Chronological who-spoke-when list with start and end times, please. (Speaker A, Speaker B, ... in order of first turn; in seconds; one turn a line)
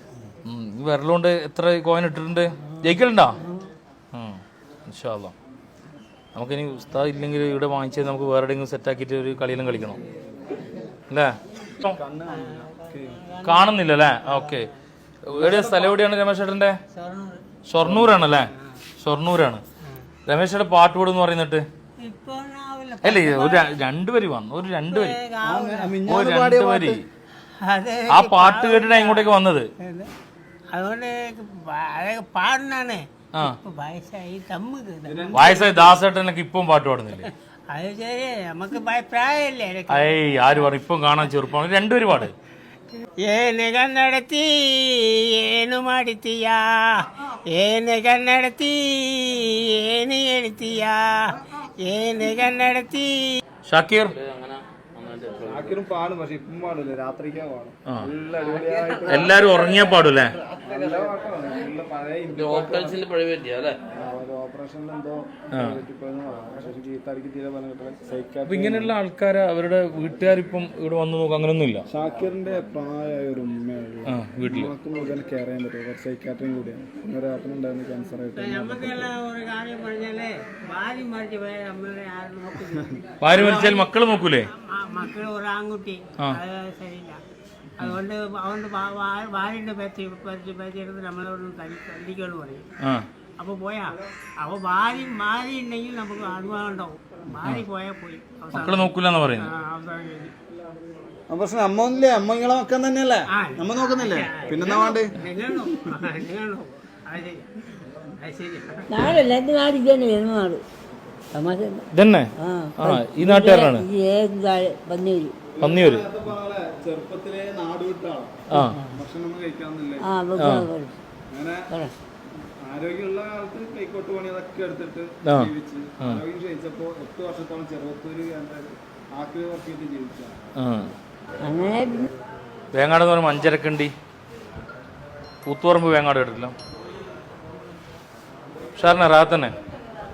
Speaker A: 0.5-3.4
Speaker A: 4.1-5.3
Speaker A: 6.3-10.0
Speaker A: 11.1-12.0
Speaker B: 11.9-13.2
Speaker C: 13.3-14.5
Speaker A: 13.4-14.7
Speaker A: 15.2-16.8
Speaker B: 15.3-15.9
Speaker C: 16.9-17.4
Speaker A: 17.7-19.6
Speaker B: 17.8-18.1
Speaker A: 20.3-21.6
Speaker C: 22.0-23.7
Speaker A: 23.0-25.2
Speaker C: 24.9-26.0
Speaker B: 25.4-27.0
Speaker A: 26.1-27.0
Speaker C: 27.6-29.3
Speaker A: 28.1-29.7
Speaker C: 29.8-30.1
Speaker C: 30.7-35.8
Speaker B: 35.0-35.9
Speaker A: 35.3-37.3
Speaker C: 37.7-40.1
Speaker A: 39.9-42.3
Speaker C: 43.2-53.4
Speaker A: 53.7-54.1
Speaker D: 54.0-55.8
Speaker B: 55.4-59.4
Speaker A: 59.1-60.4
Speaker B: 60.6-63.0
Speaker D: 62.3-63.8
Speaker B: 63.9-68.9
Speaker A: 65.5-65.8
Speaker A: 68.5-71.8
Speaker B: 71.9-79.1
Speaker A: 74.1-74.7
Speaker C: 78.3-83.9
Speaker B: 82.6-83.0
Speaker A: 83.2-84.5
Speaker C: 84.5-87.2
Speaker C: 87.8-92.6
Speaker C: 93.4-100.3
Speaker A: 97.3-97.6
Speaker A: 98.5-99.5
Speaker B: 101.3-105.9
Speaker C: 103.3-107.5
Speaker C: 108.2-108.8
Speaker E: 108.9-110.6
Speaker E: 111.3-111.8
Speaker A: 111.9-113.9
Speaker E: 112.4-115.3
Speaker B: 115.5-120.1
Speaker A: 115.6-116.1
Speaker A: 118.5-118.8
Speaker E: 120.0-121.0
Speaker A: 120.4-120.7
Speaker B: 121.3-121.7
Speaker B: 122.6-130.3
Speaker A: 125.2-126.2
Speaker A: 130.6-130.9
Speaker E: 131.4-132.1
Speaker A: 132.7-133.9
Speaker A: 135.4-136.5
Speaker A: 138.8-139.5